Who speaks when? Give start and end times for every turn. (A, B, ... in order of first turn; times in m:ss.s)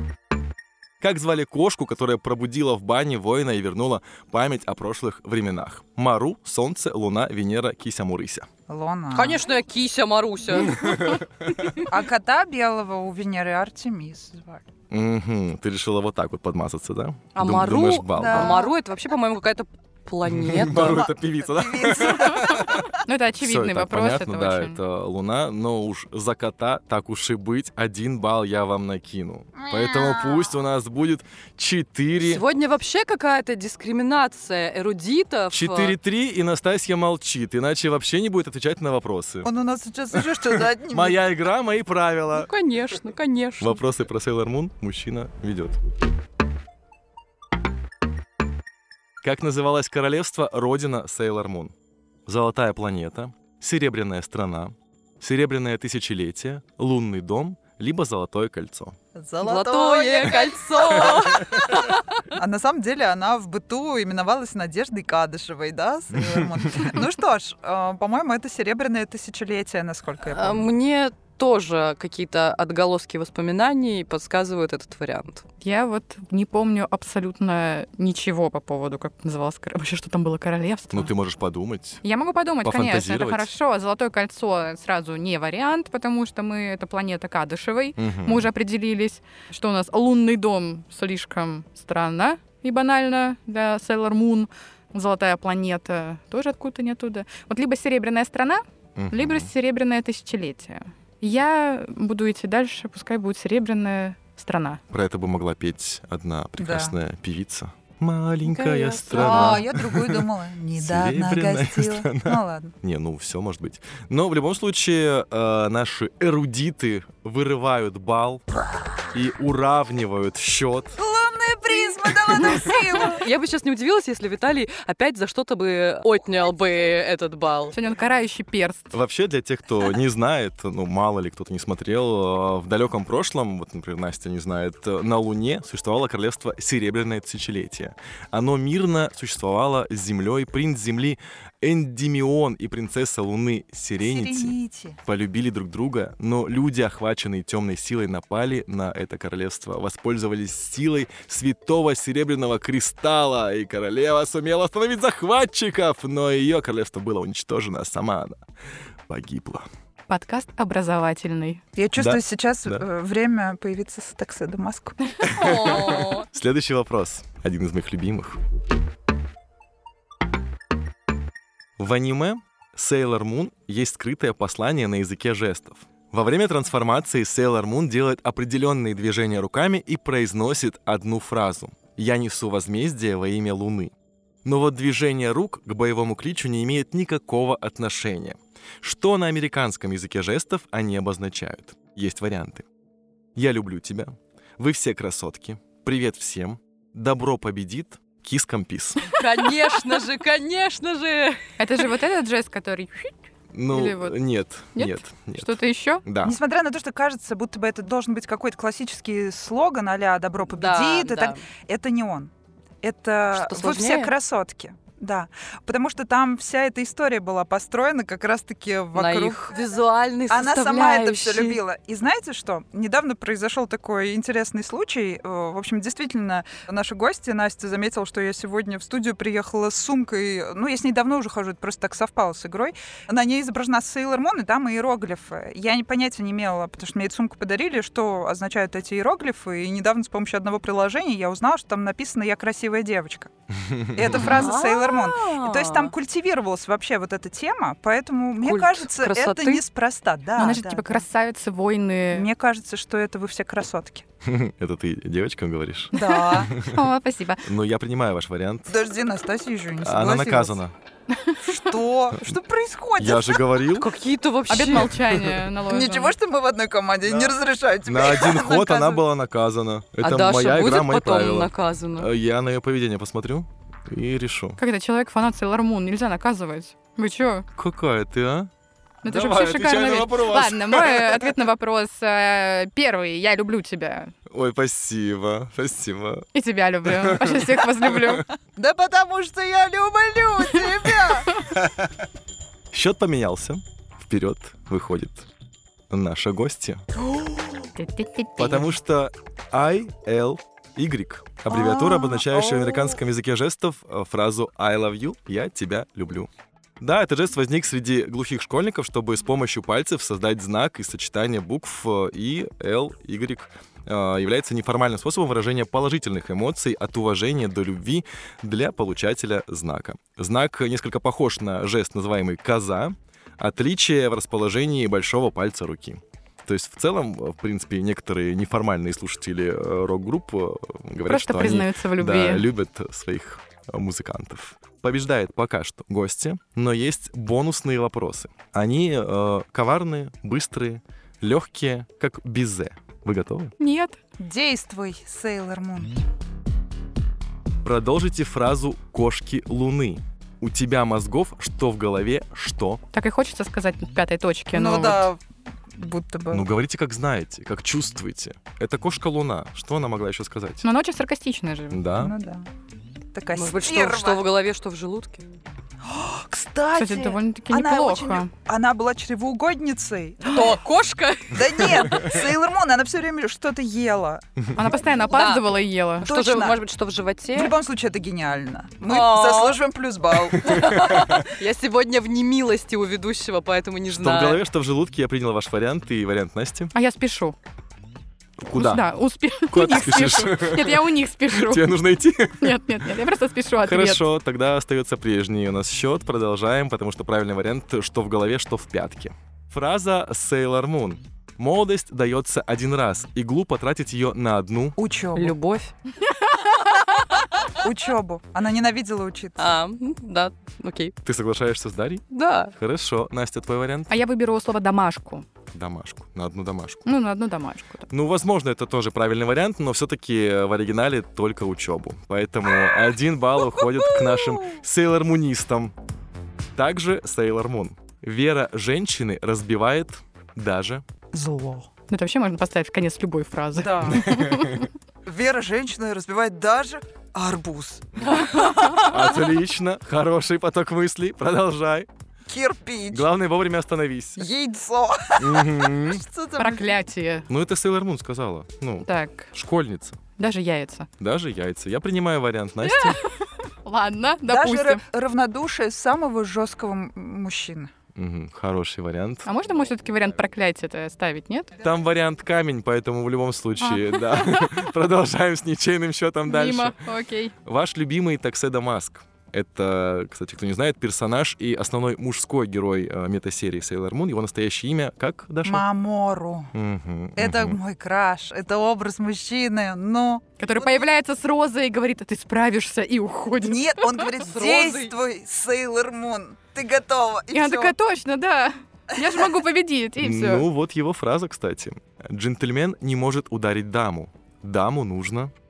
0:01.0-0:08.5 A
0:08.7-0:09.4 B
0:09.1-0:11.2 C
0:10.6-0:11.7 A
0:11.9-0:14.6 B
0:14.9-0:18.6 A
0:17.4-0:21.1 C
0:18.2-0:18.7 B
0:20.2-0:22.9 A
0:20.7-0:22.9 B
0:23.0-0:24.8 D
0:23.4-0:32.4 A
0:29.6-0:30.5 B
0:32.2-0:36.0 C
0:35.5-0:39.5 A
0:39.4-0:41.2 B
0:40.2-0:42.5 A
0:42.3-0:43.8 C
0:43.6-0:45.8 A
0:49.2-0:51.7 A
0:52.3-0:59.0 A
0:59.2-1:01.8 B
0:59.4-1:02.1 C
1:02.3-1:10.7 B
1:10.2-1:15.4 C
1:15.6-1:21.1 D
1:20.9-1:22.0 A
1:22.0-1:44.8 D
1:22.6-1:23.5 A
1:28.0-1:28.5 A
1:39.0-1:39.5 A
1:44.9-1:58.4 A
1:46.6-1:47.0 B
1:48.5-1:49.7 C
1:49.1-1:52.7 B
1:59.1-2:01.0 A
2:01.0-2:03.2 B
2:02.5-2:07.8 C
2:07.7-2:08.9 D
2:08.9-2:38.4 A
2:24.0-2:25.0 B
2:39.1-2:39.7 A
2:40.1-2:41.6 D
2:41.8-2:45.1 B
2:42.0-2:42.8 A
2:45.2-2:46.3 C
2:45.3-2:48.4 A
2:51.8-3:03.9 A
3:04.4-3:12.7 A
3:13.4-3:19.2 A
3:19.1-3:21.4 C
3:21.6-3:23.1 D
3:23.5-3:26.4 A
3:23.7-3:24.2 D
3:24.8-3:26.0 D
3:26.2-3:32.3 B
3:30.5-3:31.4 C
3:32.8-3:39.6 B
3:33.3-3:34.1 C
3:38.9-3:41.6 C
3:40.3-4:03.3 B
4:03.6-4:04.3 A
4:03.9-4:11.0 B
4:04.2-4:05.9 C
4:08.4-4:09.6 C
4:10.4-4:12.3 D
4:12.1-4:14.0 B
4:14.2-4:16.0 A
4:15.9-4:16.5 B
4:15.9-4:17.5 D
4:16.5-4:16.8 A
4:17.4-4:18.7 A
4:18.7-4:20.6 B
4:19.8-4:20.7 A
4:21.1-4:21.5 D
4:21.4-4:23.6 B
4:23.0-4:23.9 A
4:23.7-4:25.0 C
4:24.5-4:26.2 D
4:25.1-4:25.4 A
4:25.7-4:29.0 B
4:27.1-4:27.3 A
4:27.8-4:34.6 A
4:30.0-4:32.1 C
4:34.6-4:37.5 D
4:37.6-4:38.5 A
4:39.0-4:41.4 A
4:39.0-4:44.1 D
4:44.3-4:46.3 A
4:46.3-4:48.3 D
4:46.8-4:48.1 A
4:48.6-4:51.4 B
4:51.5-4:51.9 A
4:52.7-4:55.3 A
4:55.9-4:56.8 A
4:57.8-4:58.7 D
4:58.4-5:06.3 A
5:01.5-5:03.0 B
5:06.8-5:43.5 A
5:31.1-5:32.5 D
5:43.6-5:44.0 D
5:44.2-5:46.0 B
5:47.6-5:52.8 A
5:52.9-5:55.1 D
5:54.5-5:55.2 B
5:55.7-5:56.5 B
5:56.3-6:00.6 A
6:00.6-6:01.8 D
6:01.7-6:02.1 A
6:02.0-6:02.5 B
6:03.1-6:04.2 B
6:03.4-6:05.3 C
6:05.8-6:10.6 B
6:06.8-6:08.3 D
6:10.2-6:12.0 C
6:11.3-6:14.2 B
6:14.6-6:16.1 D
6:15.1-6:17.6 C
6:16.0-6:16.6 B
6:17.3-6:21.2 B
6:18.8-6:19.6 C
6:20.4-6:24.4 C
6:23.9-6:26.7 A
6:26.7-6:27.4 D
6:28.4-6:28.9 A
6:28.5-6:31.8 D
6:29.5-6:32.6 A
6:32.4-6:34.1 D
6:33.6-6:44.8 A
6:44.8-6:45.4 B
6:45.2-6:45.7 C
6:46.2-6:46.7 D
6:47.6-6:49.6 B
6:49.4-6:51.0 C
6:51.0-6:54.0 A
6:52.1-6:52.5 C
6:53.9-6:55.3 D
6:55.5-6:56.9 A
6:56.9-6:57.9 D
6:57.9-7:05.7 A
7:03.9-7:04.5 B
7:06.6-7:10.8 A
7:11.1-7:11.7 B
7:11.9-7:14.7 D
7:13.6-7:14.1 B
7:14.1-7:14.6 A
7:15.0-7:18.9 B
7:18.8-7:21.9 A
7:22.3-7:23.1 B
7:22.9-7:24.3 A
7:24.2-7:26.8 B
7:25.2-7:26.0 A
7:26.4-7:27.3 D
7:27.3-7:30.0 A
7:28.8-7:29.3 D
7:30.2-7:30.9 D
7:31.0-7:33.0 A
7:32.6-7:34.8 D
7:34.3-7:37.7 B
7:38.0-7:39.3 A
7:39.3-7:41.6 D
7:41.6-7:46.8 A
7:43.6-7:44.6 D
7:46.3-7:47.3 D
7:47.4-7:55.6 A
7:55.4-7:56.5 B
7:56.5-7:57.6 A
7:57.2-8:00.8 B
8:00.4-8:04.2 D
8:03.4-8:07.7 B
8:04.2-8:04.9 C
8:07.3-8:10.5 D
8:10.0-8:15.3 A